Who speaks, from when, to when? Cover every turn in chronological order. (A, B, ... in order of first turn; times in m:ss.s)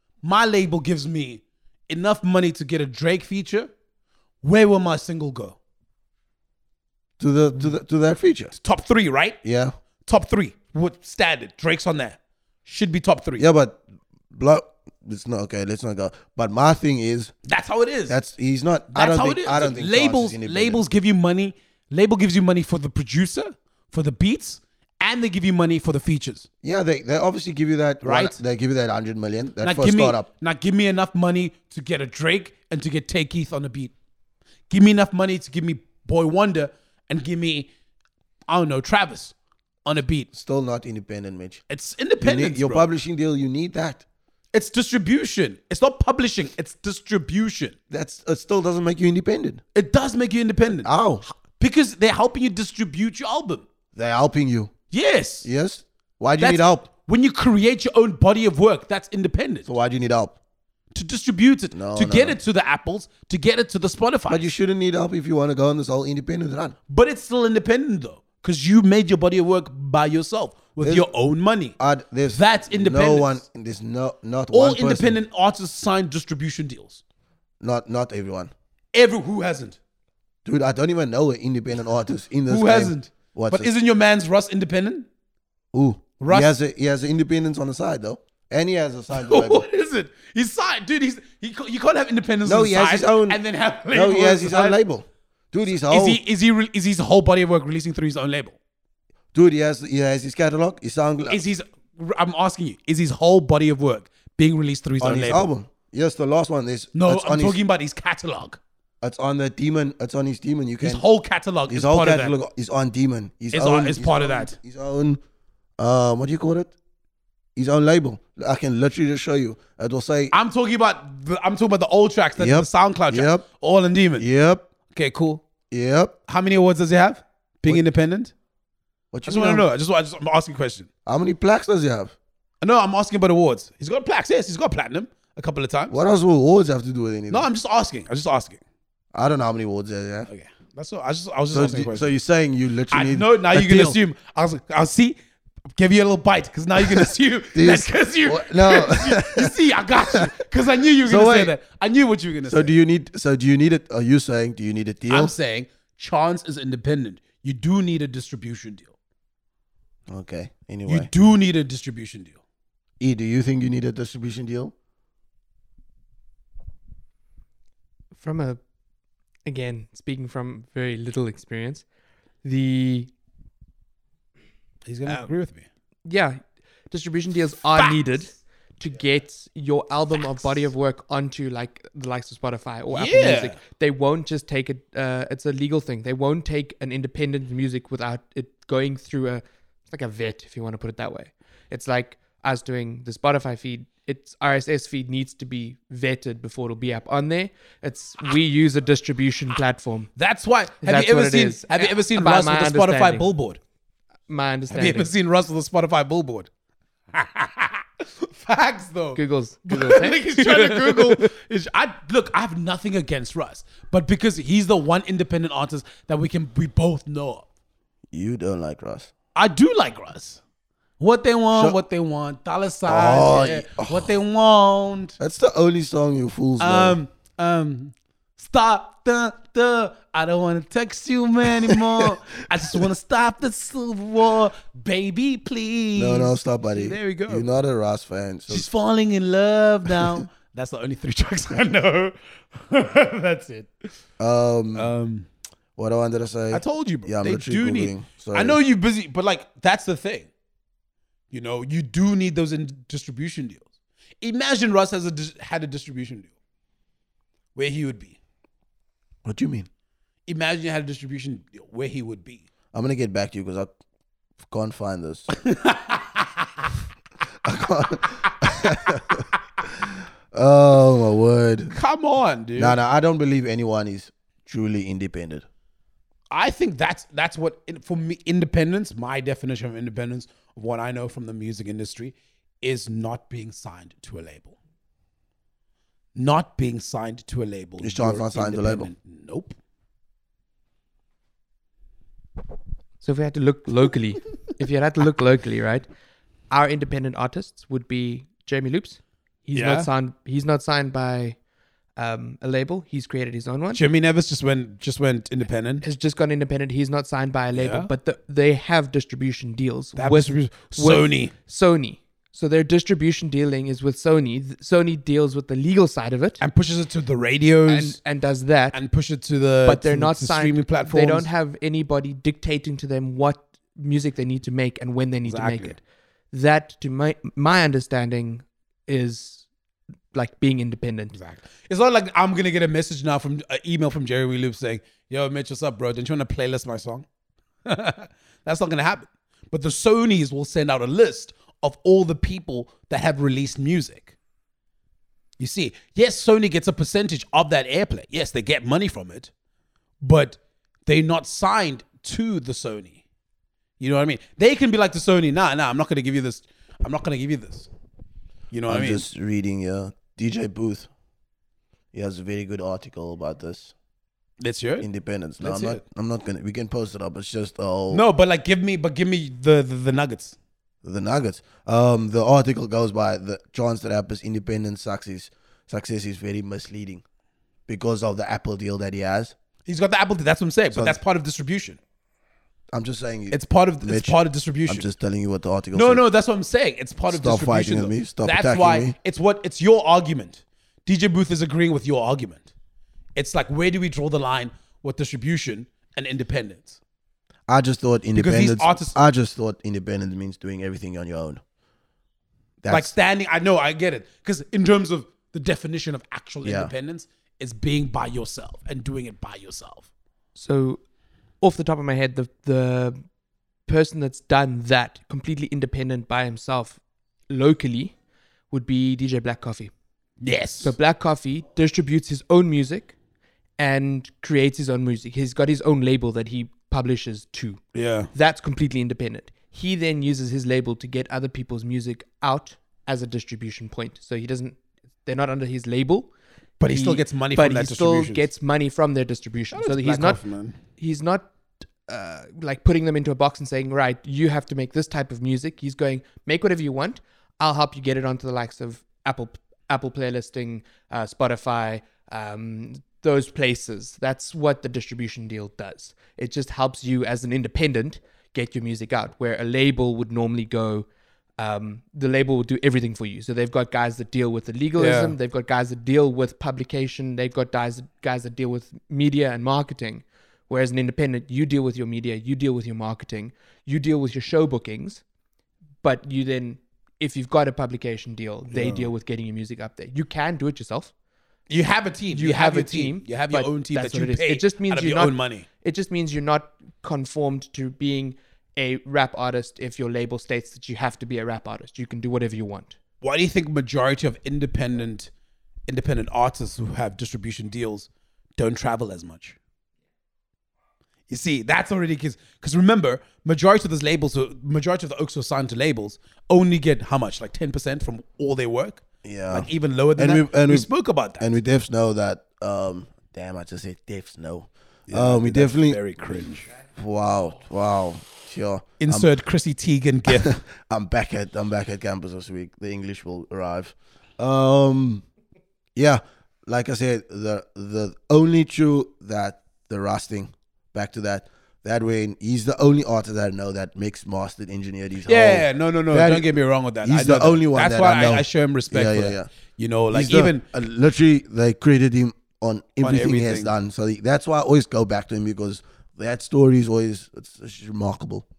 0:00.2-0:03.7 A
0:04.4-0:05.6 A
0:07.2-0:08.5 B
0:08.5-0:09.4 A
0:09.4-0:09.7 B
0:10.0-0:13.4 A
0:13.4-0:17.3 B
0:17.4-0:18.2 A
0:18.1-0:20.8 B
0:18.9-0:26.5 A
0:26.6-0:30.3 B
0:28.0-0:28.4 A
0:29.6-0:33.9 A
0:34.7-0:37.7 A
0:38.5-0:40.3 A
0:40.3-0:41.6 B
0:41.7-0:42.9 A
0:42.2-0:44.0 B
0:44.5-0:47.7 A
0:47.9-0:49.6 B
0:49.7-0:53.6 A
0:50.8-0:51.2 B
0:53.9-0:54.7 B
0:54.9-0:55.5 A
0:55.4-0:56.9 B
0:56.4-0:59.7 A
0:59.6-1:00.4 B
1:00.9-1:04.5 A
1:01.7-1:02.4 B
1:04.3-1:06.8 B
1:06.9-1:11.7 A
1:10.8-1:11.1 B
1:11.8-1:15.2 B
1:12.3-1:13.4 A
1:14.5-1:17.0 A
1:17.6-1:18.5 B
1:18.9-1:19.8 A
1:20.4-1:23.7 B
1:22.5-1:25.1 A
1:25.7-1:29.6 B
1:26.2-1:26.5 A
1:29.1-1:34.8 A
1:32.4-1:33.4 B
1:33.9-1:36.2 B
1:35.7-1:38.6 A
1:39.3-1:41.4 B
1:41.3-1:45.5 A
1:45.0-1:47.6 B
1:46.9-1:48.6 A
1:49.0-1:51.0 B
1:50.8-1:52.3 A
1:51.7-1:55.2 B
1:53.5-1:54.6 A
1:55.8-1:56.7 B
1:57.6-2:00.3 B
2:00.3-2:04.3 A
2:02.4-2:03.4 B
2:04.2-2:04.6 B
2:04.9-2:05.4 A
2:05.7-2:06.2 B
2:06.3-2:08.3 A
2:09.1-2:09.6 B
2:09.2-2:10.9 A
2:11.0-2:12.1 B
2:12.6-2:16.0 A
2:15.9-2:17.5 B
2:17.3-2:18.6 A
2:19.1-2:20.3 B
2:20.3-2:22.1 A
2:21.5-2:24.0 B
2:22.9-2:25.2 A
2:25.8-2:32.7 A
2:26.8-2:29.5 B
2:31.0-2:31.5 B
2:32.5-2:35.3 B
2:35.1-2:38.9 A
2:40.1-2:41.1 B
2:40.8-2:42.4 A
2:43.0-2:44.7 B
2:48.2-2:48.6 C
2:49.4-2:51.8 C
2:52.4-2:53.1 C
2:54.8-2:55.7 A
2:56.0-3:20.1 C
3:02.9-3:03.6 A
3:20.2-3:23.6 A
3:20.8-3:23.3 C
3:24.3-3:25.1 C
3:24.7-3:26.5 A
3:27.1-3:37.4 A
3:29.2-3:31.3 C
3:38.1-3:39.1 B
3:39.3-3:40.4 A
3:41.0-3:45.2 A
3:42.9-3:44.1 B
3:45.2-3:47.0 B
3:46.6-3:57.5 A
3:51.5-3:52.1 B
3:56.0-3:58.7 B
3:58.5-4:03.9 A
3:59.9-4:00.2 B
4:04.2-4:04.9 B
4:04.7-4:05.3 A
4:05.8-4:08.6 B
4:06.5-4:10.3 A
4:11.3-4:13.7 A
4:14.2-4:16.3 A
4:17.5-4:18.2 A
4:19.2-4:19.7 B
4:20.2-4:22.4 A
4:22.7-4:23.7 B
4:24.4-4:25.3 B
4:25.3-4:26.7 A
4:27.4-4:31.7 B
4:31.7-4:32.8 A
4:32.6-4:35.4 B
4:36.3-4:44.6 A
4:46.1-4:49.6 A
4:47.8-4:48.9 B
4:53.0-4:55.8 C
4:56.5-5:01.4 C
4:59.5-4:59.9 A
5:02.0-5:03.8 C
5:03.7-5:05.8 A
5:05.8-5:16.4 C
5:07.5-5:07.9 A
5:10.0-5:11.3 A
5:16.4-5:18.0 A
5:17.7-5:18.8 C
5:18.7-5:21.3 A
5:19.6-5:25.8 C
5:25.2-5:25.8 A
5:26.3-5:29.4 C
5:30.1-5:31.2 C
5:31.1-5:37.0 A
5:37.6-5:44.1 A
5:45.4-5:49.3 A
5:50.0-5:53.0 A
5:53.8-5:57.7 A
5:58.5-5:59.0 A
5:58.7-6:00.9 B
6:01.9-6:03.7 B
6:04.4-6:04.9 A
6:04.8-6:08.0 B
6:05.4-6:05.8 A
6:07.9-6:10.4 A
6:10.8-6:17.0 B
6:17.7-6:19.3 B
6:19.6-6:21.8 A
6:20.7-6:21.0 B
6:22.7-6:26.0 B
6:23.3-6:24.9 A
6:25.7-6:32.5 A
6:27.1-6:28.9 B
6:33.1-6:36.8 A
6:37.5-6:41.4 B
6:38.1-6:39.0 A
6:42.6-6:42.9 B
6:42.7-6:49.9 A
6:46.4-6:46.7 B
6:50.4-6:50.8 C
6:51.4-6:53.0 C
6:53.7-6:56.8 C
6:57.3-6:57.9 C
6:58.5-6:59.7 C
7:00.2-7:00.8 A
7:00.6-7:02.9 C
7:03.6-7:07.6 C
7:07.7-7:08.1 A
7:08.1-7:16.1 C
7:16.6-7:18.3 A
7:16.6-7:20.2 C
7:19.5-7:20.6 A
7:20.8-7:21.3 C
7:21.9-7:40.9 C
7:41.4-7:55.0 C
7:44.8-7:45.2 A
7:55.8-8:00.9 C
7:58.5-7:58.9 A
8:01.5-8:05.4 A
8:02.1-8:12.8 C
8:13.0-8:15.1 A
8:15.7-8:19.4 A
8:21.1-8:31.3 A
8:29.0-8:35.8 B
8:34.9-8:36.5 A
8:36.7-8:39.1 B
8:38.8-8:40.4 A
8:40.1-8:45.0 B
8:45.7-8:56.3 B
8:55.0-9:00.4 A
8:56.8-8:59.3 B
8:59.9-9:08.2 B
9:02.8-9:03.5 A